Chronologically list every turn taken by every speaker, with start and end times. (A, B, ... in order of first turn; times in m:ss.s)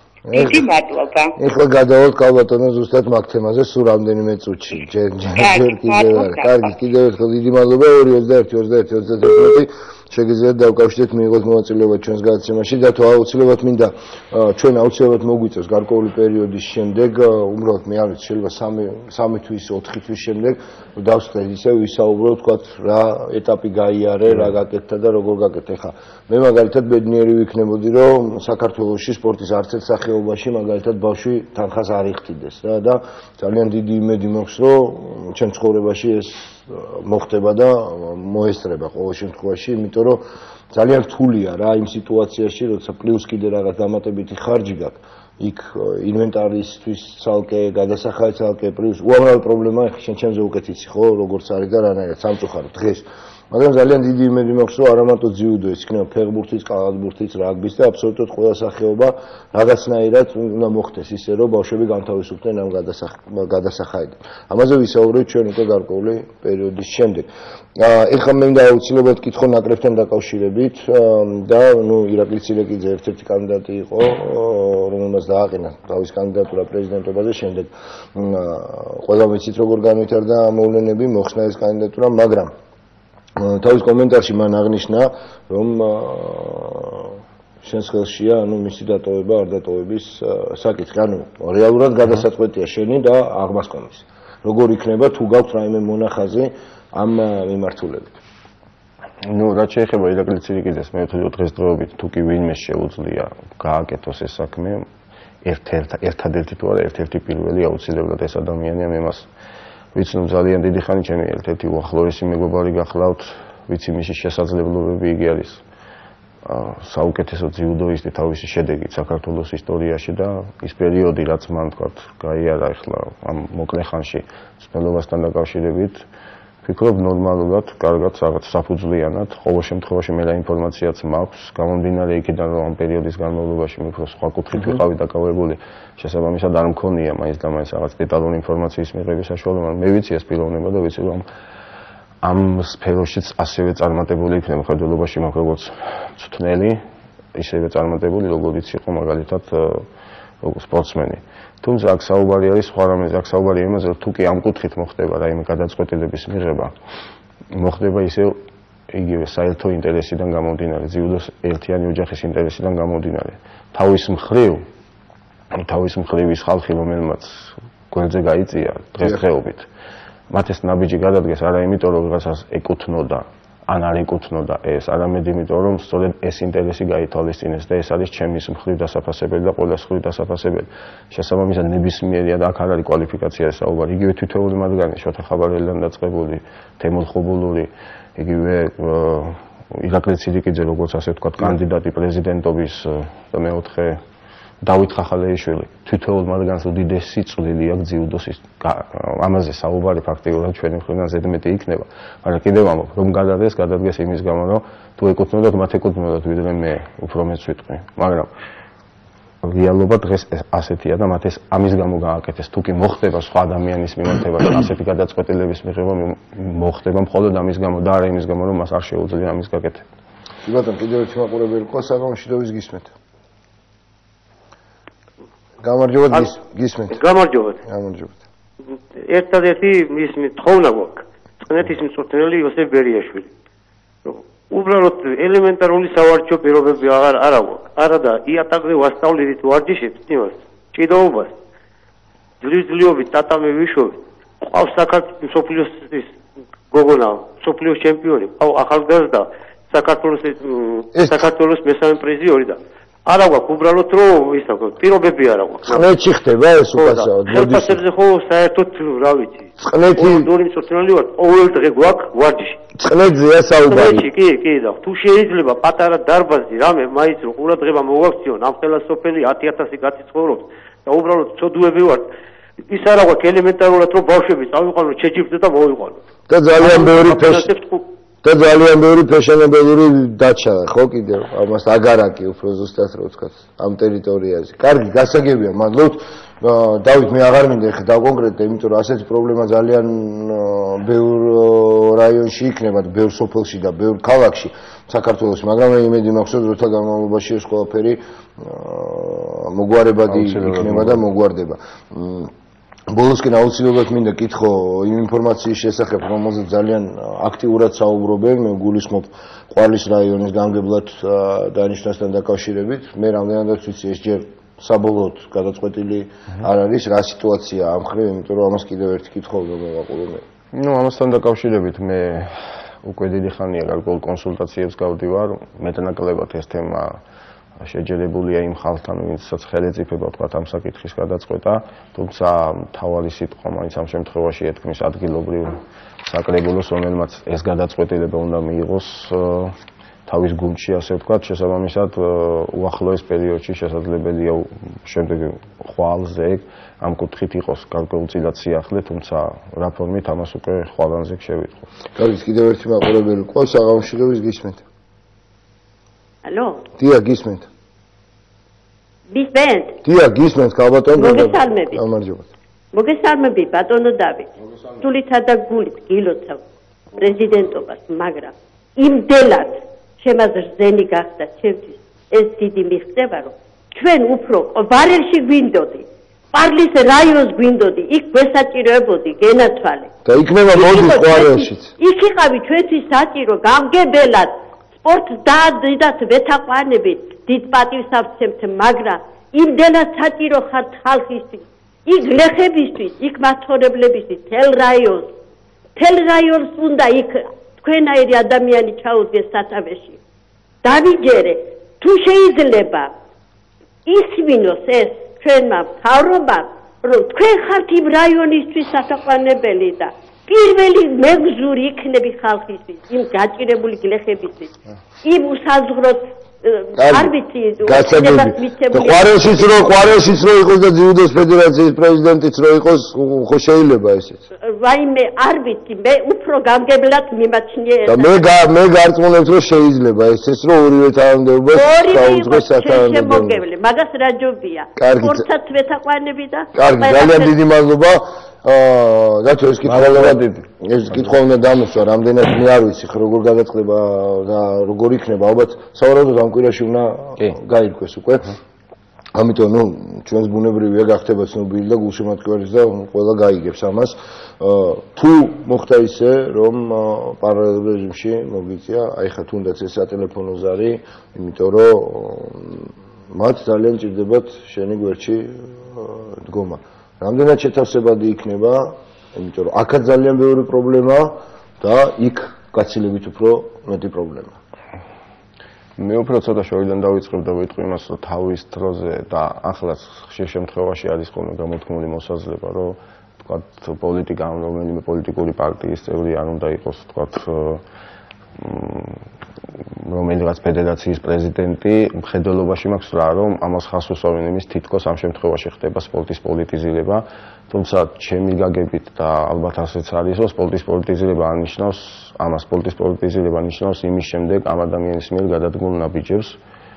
0:00.3-0:00.6 A
0:00.3-0:01.4 B
0:01.4-1:22.5 A
0:05.3-0:06.7 B
1:23.4-1:38.2 A
1:39.2-1:44.9 C
1:45.4-1:49.3 C
1:49.9-1:55.6 C
1:56.4-2:06.0 C
2:06.6-2:21.2 C
2:22.2-2:26.8 C
2:27.3-2:29.9 C
2:30.4-2:36.7 C
2:37.5-2:38.4 C
2:38.9-2:44.6 C
2:45.5-2:49.7 C
2:50.3-3:14.0 C
3:14.6-3:28.3 C
3:29.4-3:39.8 C
3:40.4-3:42.9 A
3:45.6-3:47.0 A
3:46.9-3:47.6 D
3:47.6-3:48.2 A
3:49.0-3:53.3 D
3:54.0-4:01.4 D
4:02.4-4:06.2 D
4:06.7-4:15.8 D
4:10.9-4:11.2 A
4:15.6-4:17.8 A
4:16.8-4:22.6 D
4:19.6-4:20.3 A
4:22.8-4:24.0 A
4:23.7-4:32.1 D
4:32.7-4:36.0 D
4:36.3-4:37.5 A
4:36.6-4:37.9 D
4:38.2-5:02.3 A
5:00.1-5:01.0 C
5:02.9-5:20.2 A
5:20.5-5:27.0 C
5:27.6-5:39.6 C
5:40.1-5:51.7 C
5:52.0-5:54.6 A
5:56.2-5:56.7 E
5:56.8-5:57.5 A
5:59.1-5:59.8 E
5:59.8-6:02.3 A
6:00.9-6:01.8 E
6:02.7-6:06.4 E
6:06.9-6:19.9 E
6:20.0-6:21.7 A
6:20.5-6:35.1 E
6:35.8-6:40.0 E
6:40.6-6:42.9 E
6:43.9-6:54.5 E
6:55.0-6:59.1 E
6:56.8-6:57.1 A
6:57.6-7:04.2 A
7:04.4-7:08.2 E
7:07.9-7:13.4 A
7:11.5-7:17.3 E
7:14.8-7:15.2 A
7:16.5-7:28.4 A
7:19.6-7:20.4 C
7:29.1-7:54.4 A
7:55.8-8:07.6 C
8:08.4-8:09.0 C
8:09.8-8:26.4 C